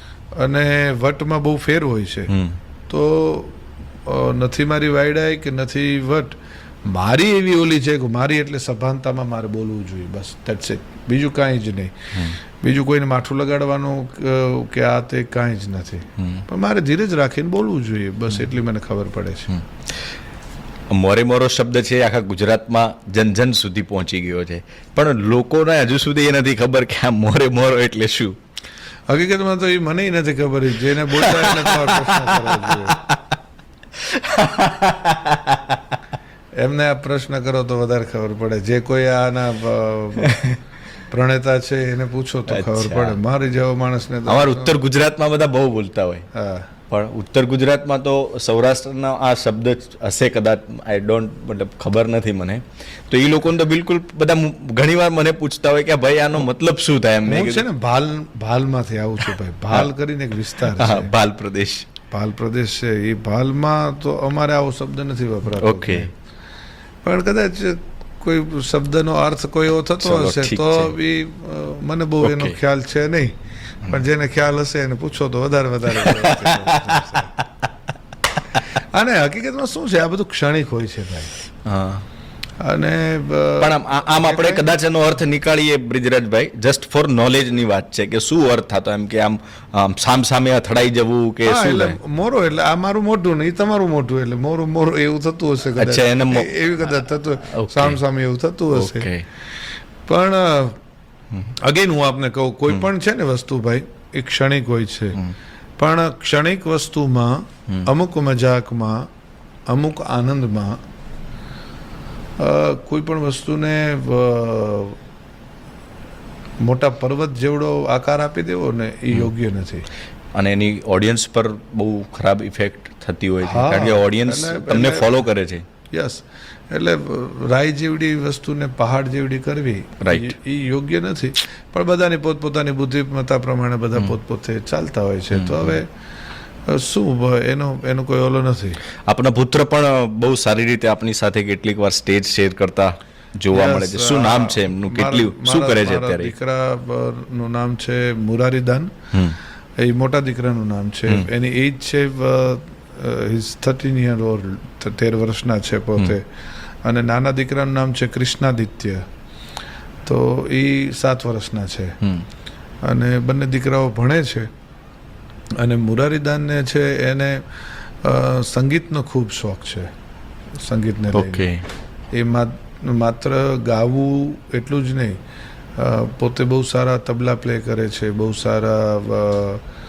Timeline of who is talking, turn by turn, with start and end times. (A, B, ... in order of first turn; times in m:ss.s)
0:00.4-0:02.3 A
0:02.3-0:02.6 B
0:02.9-0:19.5 A
0:20.9-0:28.4 B
0:29.1-0:33.0 A
0:31.2-0:32.8 B
0:34.0-0:35.8 B
0:36.6-0:40.4 A
0:40.2-0:40.6 B
0:41.1-0:44.7 A
0:42.5-0:43.2 B
0:44.2-0:46.3 B
0:46.3-0:46.7 A
0:46.9-0:57.6 B
0:57.2-1:01.1 A
1:00.6-1:01.9 B
1:02.1-1:06.1 A
1:05.6-1:06.1 B
1:07.0-1:17.3 A
1:10.0-1:10.9 B
1:12.2-1:12.6 B
1:15.9-1:17.2 B
1:18.7-1:21.3 A
1:21.6-1:22.0 B
1:22.6-1:24.7 A
1:23.6-1:32.0 B
1:31.4-1:39.1 A
1:35.7-1:36.5 B
1:37.4-1:38.0 B
1:38.7-1:39.2 B
1:40.0-1:40.8 A
1:41.6-1:45.2 A
1:45.8-1:49.1 A
1:49.7-1:50.8 A
1:52.4-1:55.0 A
1:56.6-1:59.8 A
2:00.3-2:05.6 B
2:03.4-2:05.3 A
2:05.9-2:15.9 A
2:10.0-2:10.3 B
2:15.3-2:15.8 B
2:16.7-2:18.8 A
2:19.1-2:26.3 B
2:23.5-2:28.9 A
2:29.8-2:36.3 A
2:36.8-2:39.0 A
2:40.0-2:42.0 A
2:42.8-2:44.5 A
2:45.6-2:49.9 A
2:50.6-2:51.5 A
2:51.1-2:51.6 B
2:52.1-2:55.2 A
2:55.8-2:59.6 A